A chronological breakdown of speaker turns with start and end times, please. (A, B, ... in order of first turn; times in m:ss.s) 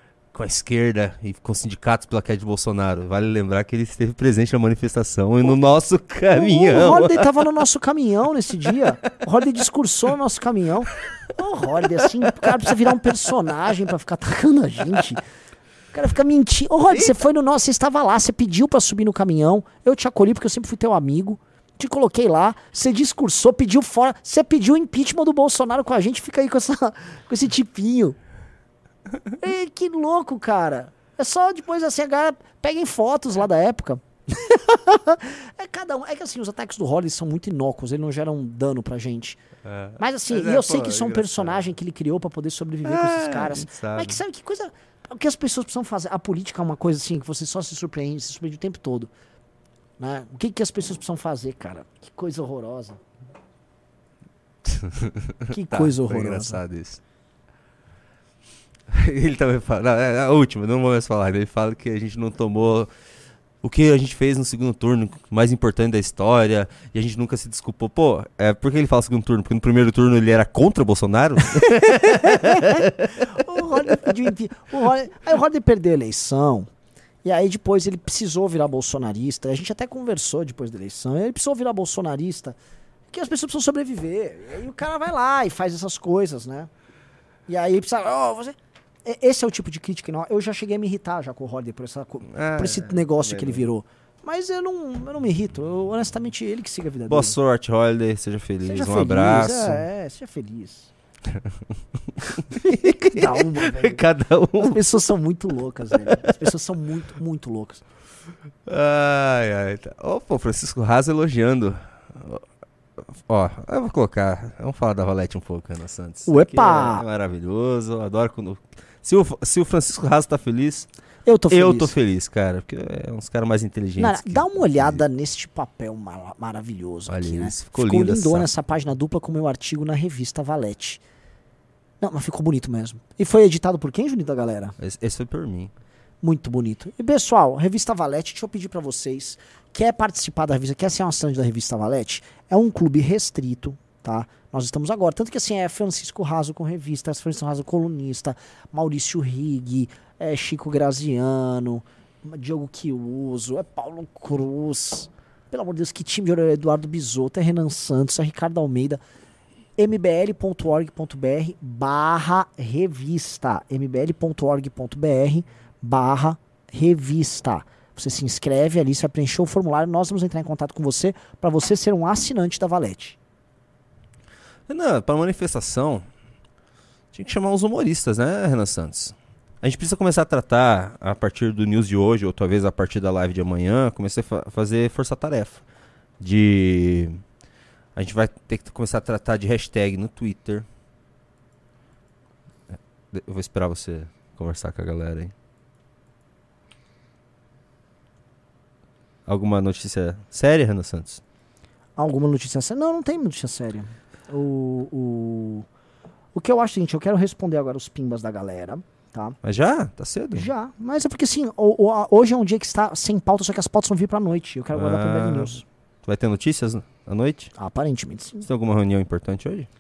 0:00.3-0:07.4 A
0:06.3-0:15.2 B
0:15.9-0:28.2 B
0:29.4-0:39.4 B
0:39.6-0:41.7 A
0:40.0-0:49.1 B
0:42.8-0:44.2 A
0:50.0-0:53.0 B
0:54.7-0:57.0 A
0:55.5-0:56.6 B
0:58.9-1:02.9 A
1:03.6-1:13.4 A
1:11.7-1:16.7 B
1:17.2-1:22.6 B
1:23.1-1:26.7 B
1:27.5-1:37.4 B
1:32.3-1:33.7 A
1:37.1-1:39.8 A
1:38.6-1:40.9 B
1:42.2-1:44.8 A
1:42.5-1:44.0 B
1:44.6-1:47.8 B
1:46.0-1:46.4 A
1:48.7-1:52.4 A
1:53.2-2:00.9 A
1:56.3-1:57.0 B
2:01.2-2:01.9 B
2:01.5-2:05.0 A
2:04.0-2:11.0 B
2:07.1-2:08.5 A
2:12.0-2:14.8 B
2:14.8-2:15.7 A
2:16.2-2:39.0 B
2:39.8-2:53.2 B
2:54.7-2:56.1 A
2:57.1-3:05.6 A
3:06.2-3:07.2 A
3:08.0-3:10.7 A
3:13.1-3:15.3 A
3:19.3-3:21.2 A
3:22.0-3:25.7 B
3:26.3-3:29.4 B
3:29.4-3:30.5 A
3:30.3-3:35.6 B
3:34.7-3:37.5 A
3:37.6-3:38.4 B
3:38.4-3:39.7 A